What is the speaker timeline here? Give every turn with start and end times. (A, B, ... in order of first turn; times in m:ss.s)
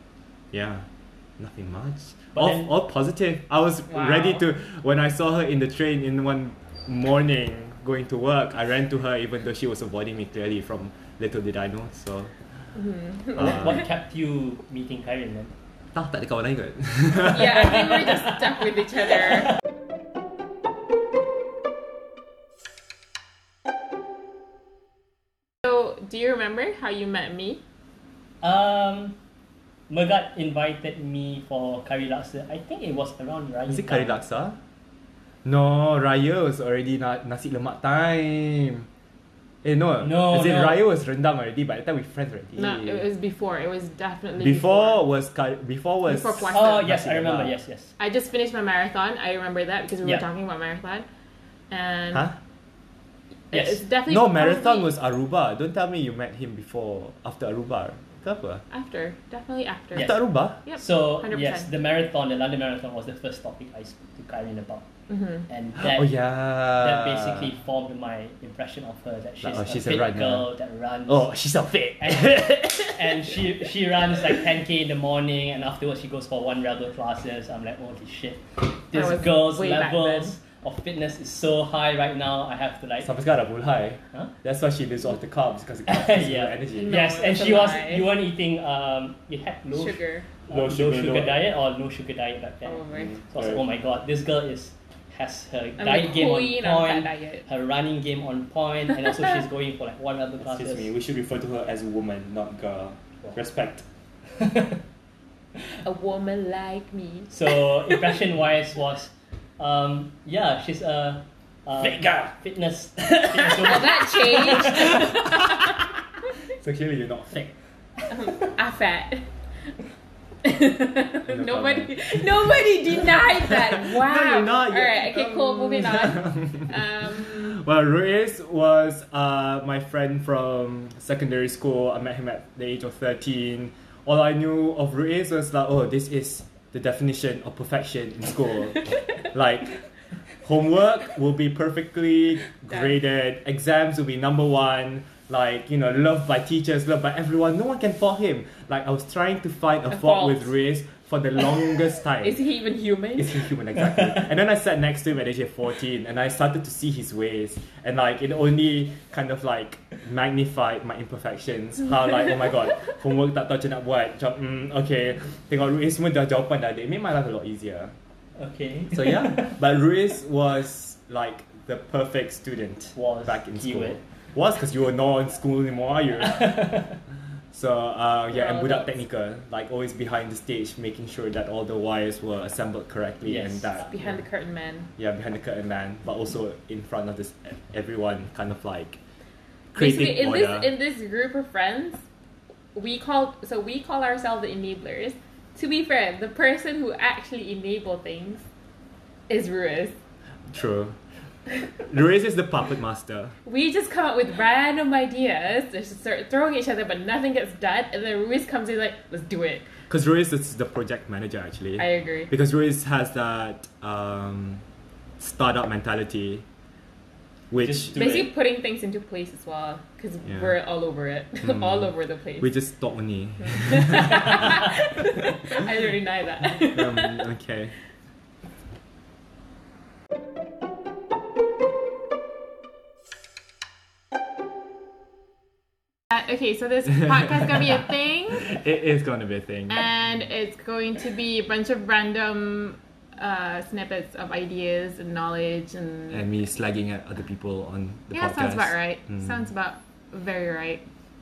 0:00.5-0:00.8 A
0:01.4-0:12.3 A
0:02.3-0:02.7 B
0:03.9-0:04.4 C
0:12.7-0:13.8 C
0:13.3-0:15.5 B
0:13.3-0:13.8 A
0:15.9-0:18.2 A
0:17.2-0:19.5 C
0:25.6-0:27.6 C
0:28.4-0:29.2 B
0:29.9-0:34.2 B
0:33.7-0:34.6 A
0:35.4-0:38.9 A
0:39.6-0:43.0 A
0:40.0-0:40.8 B
0:42.6-0:45.0 C
0:44.4-0:47.5 A
0:46.0-0:46.9 C
0:46.4-0:47.9 B
0:48.0-0:51.0 C
0:51.7-0:52.3 C
0:53.5-0:54.9 C
0:53.5-0:53.9 B
0:54.0-0:58.6 A
0:58.7-1:01.7 C
0:59.9-1:00.6 A
0:59.9-1:04.8 B
1:05.1-1:05.4 C
1:05.5-1:11.3 B
1:05.8-1:07.5 A
1:09.4-1:10.5 A
1:11.0-1:13.4 A
1:12.0-1:23.1 B
1:18.9-1:20.3 C
1:23.0-1:27.0 A
1:25.8-1:40.9 B
1:26.7-1:28.1 C
1:29.7-1:30.3 C
1:30.5-1:31.4 A
1:32.6-1:33.2 C
1:32.9-1:33.6 A
1:35.8-1:37.4 C
1:40.4-1:43.8 A
1:44.4-1:44.8 B
1:45.8-1:47.3 C
1:47.3-1:55.3 B
1:51.8-1:52.3 A
1:53.4-1:55.8 C
1:54.7-1:55.3 A
1:56.5-1:57.5 A
1:58.1-1:59.3 C
2:00.4-2:07.6 C
2:01.2-2:02.5 A
2:03.5-2:19.8 A
2:20.4-2:32.4 A
2:29.9-2:30.5 C
2:32.2-2:33.5 C
2:33.2-2:47.9 A
2:48.4-2:49.6 B
2:48.9-2:56.7 A
2:52.9-2:54.0 B
2:56.2-2:57.0 B
2:57.5-3:03.9 A
2:58.3-2:59.0 C
3:03.2-3:04.1 B
3:03.8-3:04.9 C
3:05.0-3:09.0 A
3:09.7-3:10.7 A
3:09.8-3:12.0 C
3:12.7-3:18.4 C
3:19.3-3:19.9 C
3:20.5-3:21.0 A
3:21.8-3:23.4 A
3:23.4-3:29.7 C
3:29.9-3:34.6 A
3:31.8-3:32.3 C
3:35.2-3:36.4 A
3:37.5-3:38.1 A
3:37.6-3:38.3 B
3:37.9-3:42.5 C
3:40.2-3:40.5 A
3:41.4-3:44.4 A
3:43.4-3:47.3 C
3:46.7-3:47.7 A
3:56.1-3:58.6 C
3:58.3-3:59.8 A
3:59.7-4:06.3 C
4:06.1-4:09.3 A
4:08.1-4:10.8 C